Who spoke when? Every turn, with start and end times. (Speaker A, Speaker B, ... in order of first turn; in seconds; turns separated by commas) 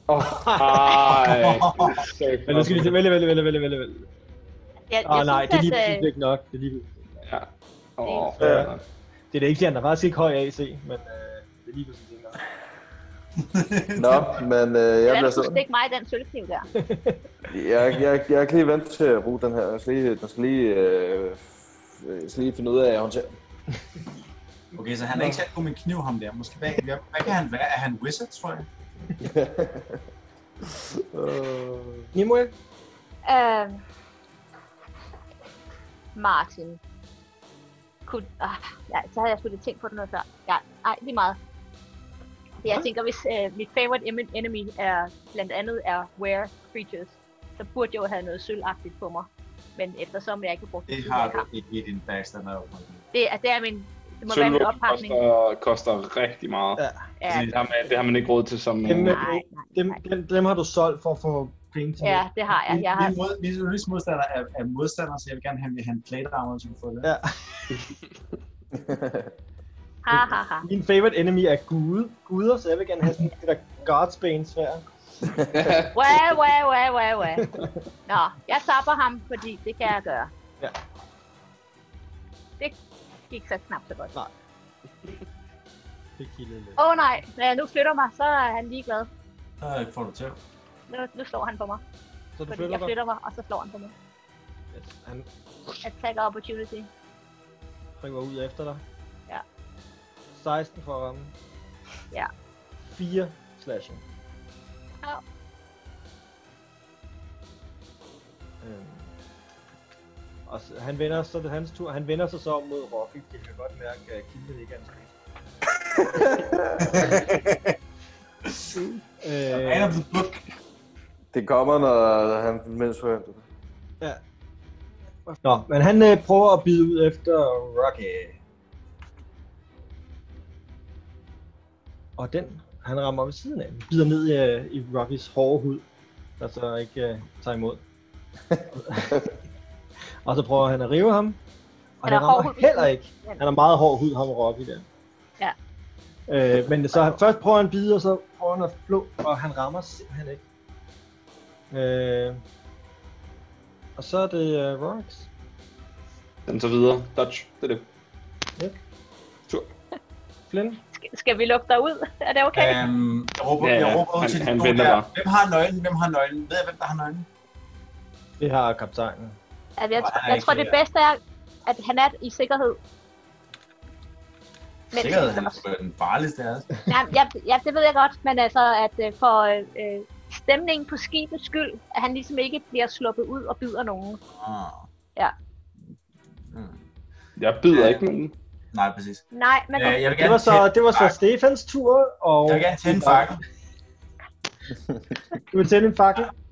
Speaker A: 0.2-1.0, Speaker B: 0.4-3.0, Speaker C: 1.0-2.1, Speaker A: 2.5-4.1, Speaker D: 4.9-6.1, Speaker A: 5.0-7.0, Speaker B: 7.2-8.8, Speaker D: 8.0-8.4, Speaker A: 8.4-8.7, Speaker E: 8.4-8.7, Speaker A: 9.3-12.4, Speaker C: 13.4-14.3, Speaker E: 13.9-15.6, Speaker D: 15.1-16.7, Speaker A: 16.8-17.2, Speaker E: 17.5-23.4, Speaker C: 24.7-28.7, Speaker E: 29.2-30.0, Speaker E: 30.6-32.1, Speaker A: 32.1-32.5, Speaker D: 33.2-33.8, Speaker D: 36.1-36.8, Speaker D: 38.1-41.4, Speaker D: 42.6-51.5, Speaker C: 50.9-53.0, Speaker D: 53.1-55.2, Speaker B: 54.3-56.8, Speaker A: 56.8-57.1, Speaker D: 57.2-57.5, Speaker C: 57.3-57.6, Speaker B: 57.5-59.2, Speaker A: 58.9-62.4, Speaker D: 59.0-60.0, Speaker D: 62.0-63.1, Speaker C: 62.7-67.1, Speaker A: 67.0-67.9, Speaker E: 68.8-69.3, Speaker D: 70.0-70.7, Speaker A: 70.1-74.9, Speaker B: 75.5-75.9, Speaker D: 75.9-77.5, Speaker A: 77.4-77.7, Speaker D: 78.1-80.3, Speaker D: 83.3-84.1, Speaker A: 86.2-86.8, Speaker D: 86.8-89.1, Speaker C: 89.6-90.4, Speaker D: 90.9-91.8, Speaker A: 92.4-92.9, Speaker D: 92.5-93.9, Speaker A: 94.7-95.3, Speaker D: 95.8-96.9, Speaker A: 98.0-98.8, Speaker A: 100.3-101.3, Speaker A: 102.8-104.0, Speaker A: 108.6-109.1, Speaker A: 110.5-115.1, Speaker E: 116.1-117.0, Speaker C: 116.8-117.7, Speaker C: 118.5-118.7, Speaker A: 119.2-120.0, Speaker C: 119.5-120.5, Speaker E: 121.3-123.4, Speaker A: 125.3-128.4, Speaker A: 132.2-135.8, Speaker A: 136.4-137.8, Speaker A: 138.7-139.3, Speaker A: 140.2-141.4, Speaker A: 142.0-144.8, Speaker D: 142.1-143.4, Speaker A: 146.3-150.4, Speaker A: 151.7-152.4, Speaker A: 154.0-155.3, Speaker B: 156.5-157.8, Speaker A: 160.5-160.8, Speaker D: 160.9-162.8, Speaker C: 162.5-167.3, Speaker B: 163.6-165.1, Speaker A: 168.4-169.4, Speaker D: 169.8-172.8, Speaker C: 170.0-170.8, Speaker D: 174.9-175.6, Speaker C: 174.9-176.7, Speaker D: 176.9-184.2, Speaker C: 184.4-184.9, Speaker C: 186.5-186.8, Speaker B: 187.4-188.3, Speaker C: 187.7-188.0, Speaker C: 188.7-189.2, Speaker D: 189.3-190.0, Speaker C: 189.7-191.1, Speaker A: 190.1-193.3, Speaker C: 192.4-193.4, Speaker A: 195.3-196.3